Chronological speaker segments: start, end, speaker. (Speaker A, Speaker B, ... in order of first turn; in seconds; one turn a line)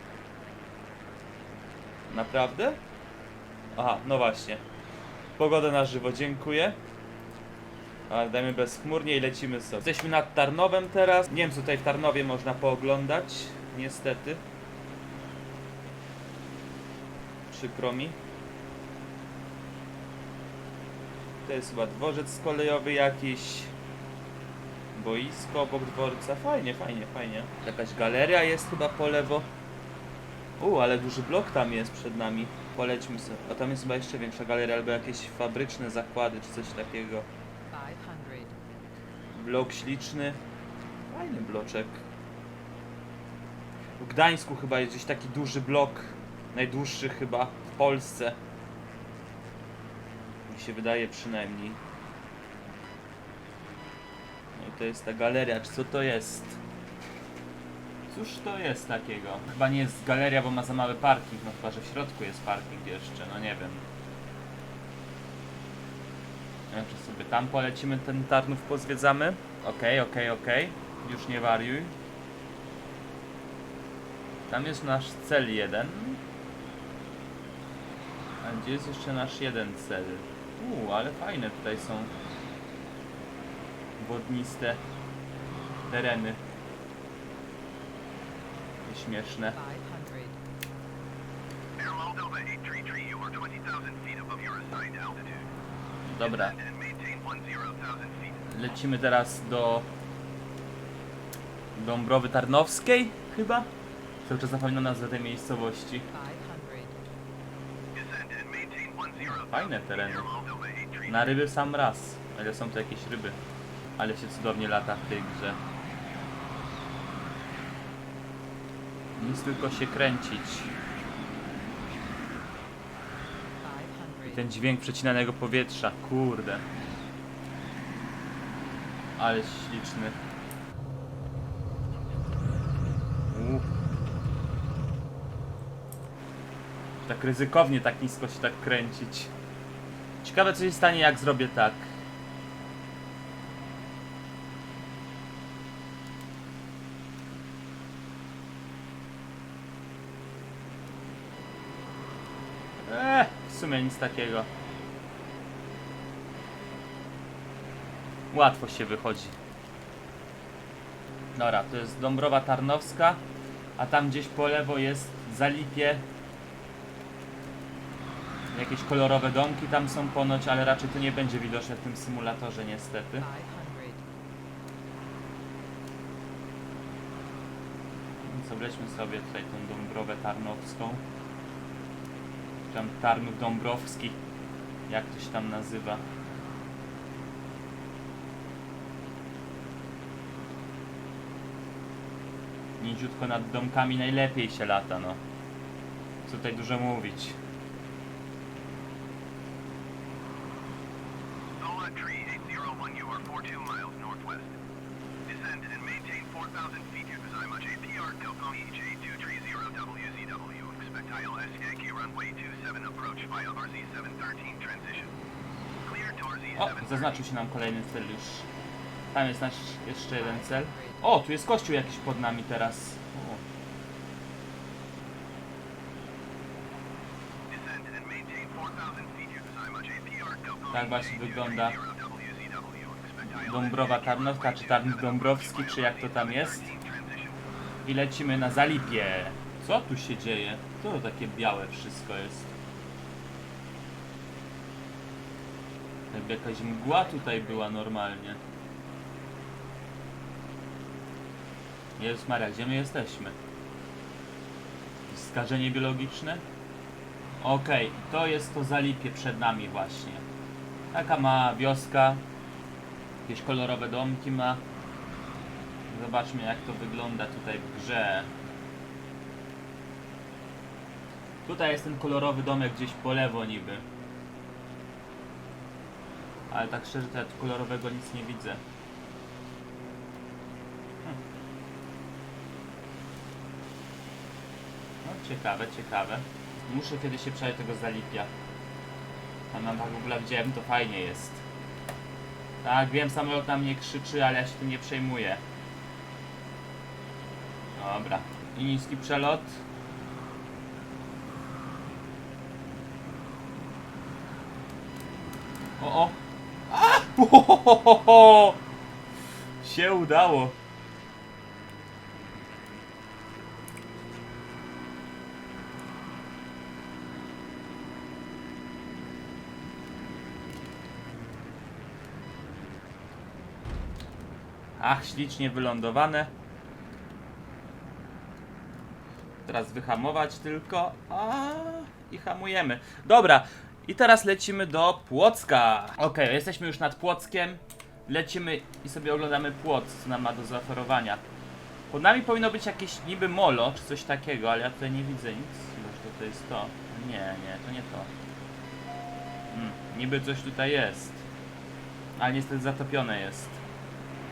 Speaker A: 2.1-2.8
Speaker A: 3.8-4.6
Speaker A: 5.4-6.8
Speaker A: 8.1-14.4
Speaker A: 17.5-18.2
Speaker A: 21.4-23.8
Speaker A: 24.9-29.5
Speaker A: 30.6-37.3
Speaker B: 37.7-38.6
Speaker A: 39.3-40.4
Speaker A: 41.1-42.0
Speaker A: 44.0-48.4
Speaker A: 50.5-51.8
Speaker A: 54.6-56.6
Speaker A: 58.1-63.9
Speaker A: 66.7-71.9
Speaker A: 74.5-76.2
Speaker A: 78.4-82.2
Speaker A: 84.0-84.8
Speaker A: 85.9-86.4
Speaker A: 88.8-89.6
Speaker B: 89.5-90.4
Speaker C: 91.8-95.5
Speaker A: 96.1-96.6
Speaker C: 96.6-98.3
Speaker A: 98.5-99.9
Speaker A: 101.8-103.7
Speaker A: 104.2-106.1
Speaker B: 106.1-107.0
Speaker C: 107.9-109.4
Speaker A: 109.1-110.3
Speaker C: 110.3-111.0
Speaker A: 111.1-113.4
Speaker A: 114.0-115.6
Speaker A: 119.2-120.7
Speaker B: 123.6-124.4
Speaker A: 124.2-126.6
Speaker A: 129.2-130.2
Speaker A: 133.3-133.7
Speaker A: 137.0-139.3
Speaker A: 140.2-141.9
Speaker A: 152.8-154.5
Speaker A: 158.3-159.4
Speaker A: 161.4-163.2
Speaker A: 163.8-166.1
Speaker A: 168.5-173.3
Speaker B: 173.2-174.1
Speaker A: 178.2-181.0
Speaker A: 182.7-184.2
Speaker A: 184.9-186.0
Speaker A: 192.8-195.2
Speaker A: 196.2-197.4
Speaker C: 201.6-204.5
Speaker C: 205.3-215.1
Speaker C: 215.9-216.5
Speaker A: 216.6-218.5
Speaker A: 219.1-223.4
Speaker B: 220.1-221.0
Speaker C: 227.5-230.7
Speaker A: 230.7-231.8
Speaker C: 231.7-233.4
Speaker A: 233.2-236.7
Speaker C: 236.4-237.3
Speaker A: 237.8-242.5
Speaker A: 246.1-248.4
Speaker B: 246.9-247.7
Speaker A: 252.0-253.4
Speaker A: 255.1-256.4
Speaker A: 257.4-260.2
Speaker A: 260.9-262.2
Speaker A: 263.2-264.6
Speaker A: 265.9-268.3
Speaker A: 271.4-273.8
Speaker A: 276.5-278.6
Speaker A: 285.0-288.3
Speaker A: 289.5-291.4
Speaker A: 292.6-295.4
Speaker A: 297.8-299.6
Speaker A: 305.8-306.2
Speaker A: 306.7-308.6
Speaker A: 309.6-310.6
Speaker A: 324.8-326.3
Speaker A: 329.4-341.2
Speaker A: 341.9-348.1
Speaker A: 349.5-351.2
Speaker A: 352.2-353.6